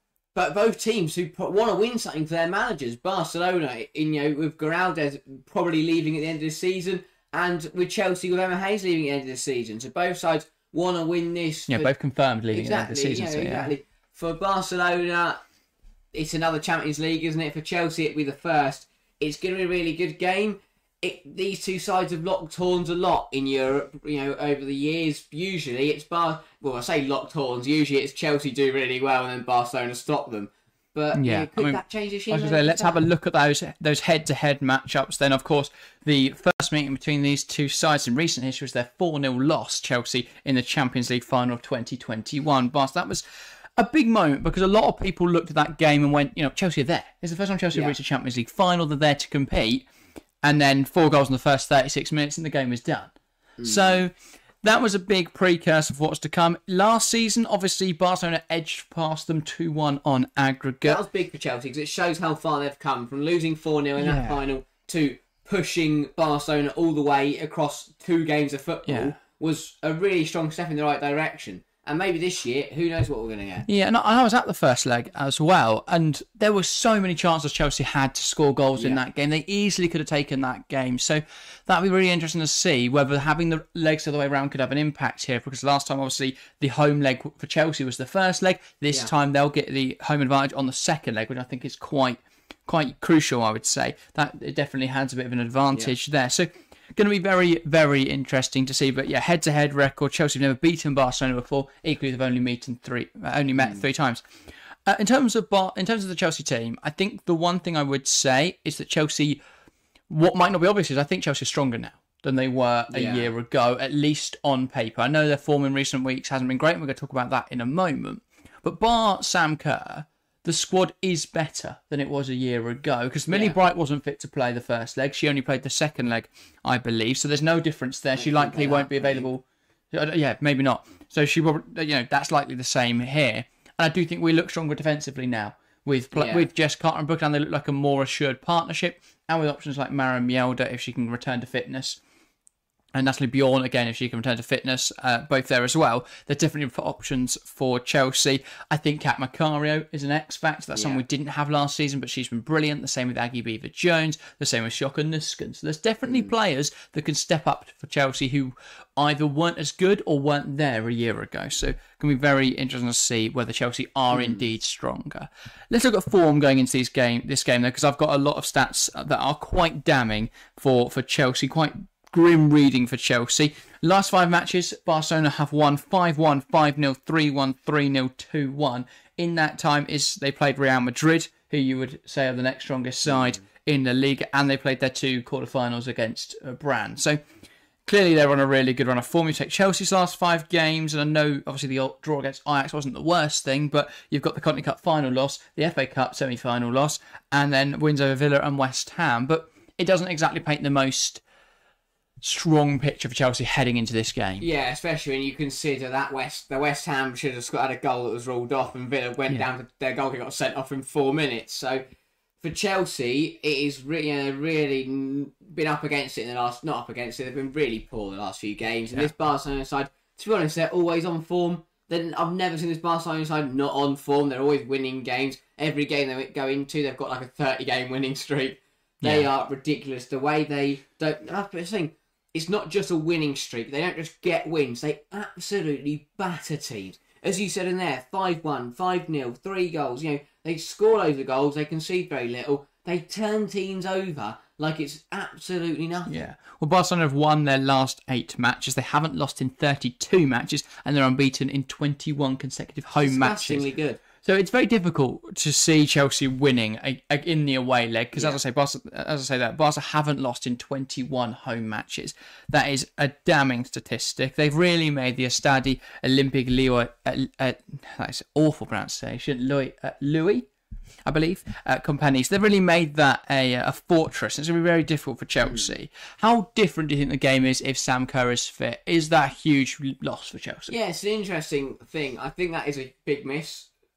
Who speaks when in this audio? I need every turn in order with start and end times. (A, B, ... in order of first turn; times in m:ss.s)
0:00.4-0:11.9 A
0:11.7-0:13.7 B
0:12.5-0:15.4 A
0:16.1-0:33.0 A
0:31.1-0:43.2 B
0:43.8-0:49.9 B
0:50.4-1:01.0 B
0:53.6-0:54.0 A
1:00.8-1:13.7 A
1:04.0-1:04.4 B
1:08.9-1:09.2 B
1:13.7-1:44.2 B
1:18.8-1:19.0 A
1:44.9-1:49.4 B
1:50.1-2:22.0 B
1:52.9-1:53.3 A
2:03.3-2:03.6 A
2:08.2-2:09.3 A
2:16.1-2:16.5 A
2:22.9-3:07.2 B
2:30.8-2:31.0 A
2:44.1-2:44.4 A
3:03.1-3:03.4 A
3:07.9-3:21.2 B
3:22.2-3:24.4 B
3:24.4-3:31.8 A
3:32.4-4:06.1 A
3:49.0-3:49.3 B
4:06.1-4:13.7 B
4:13.0-4:14.0 A
4:14.2-4:30.5 B
4:31.1-4:40.7 B
4:35.4-4:35.7 A
4:40.7-4:43.7 A